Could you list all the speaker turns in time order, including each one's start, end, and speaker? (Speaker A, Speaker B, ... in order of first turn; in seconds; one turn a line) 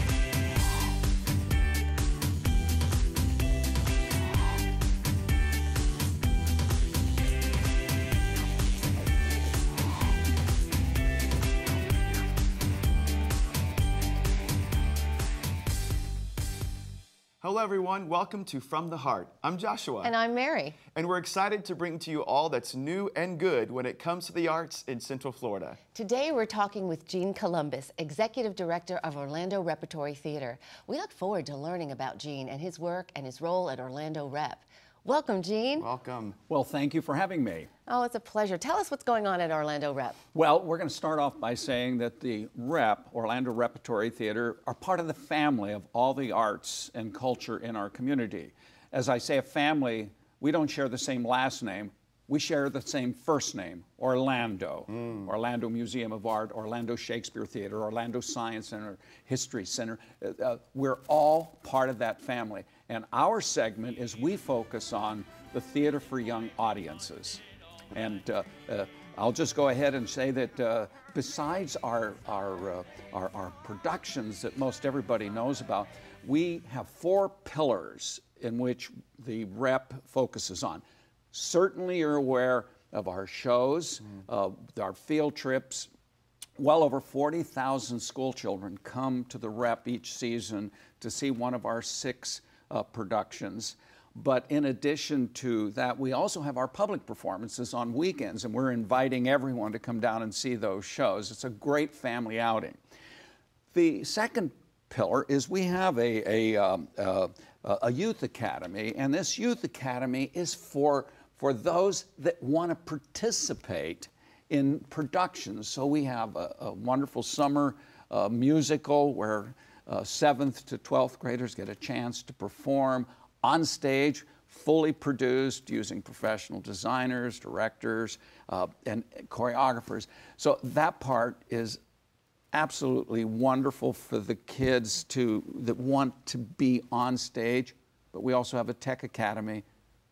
Speaker A: 17.4-20.1
Speaker B: 20.0-20.8
Speaker A: 20.9-25.8
Speaker B: 25.9-35.9
Speaker A: 35.8-36.4
Speaker C: 36.5-37.7
Speaker B: 37.9-40.2
Speaker C: 40.3-67.4
Speaker C: 67.9-85.9
Speaker C: 86.6-102.8
Speaker C: 103.7-131.8
Speaker C: 132.5-139.7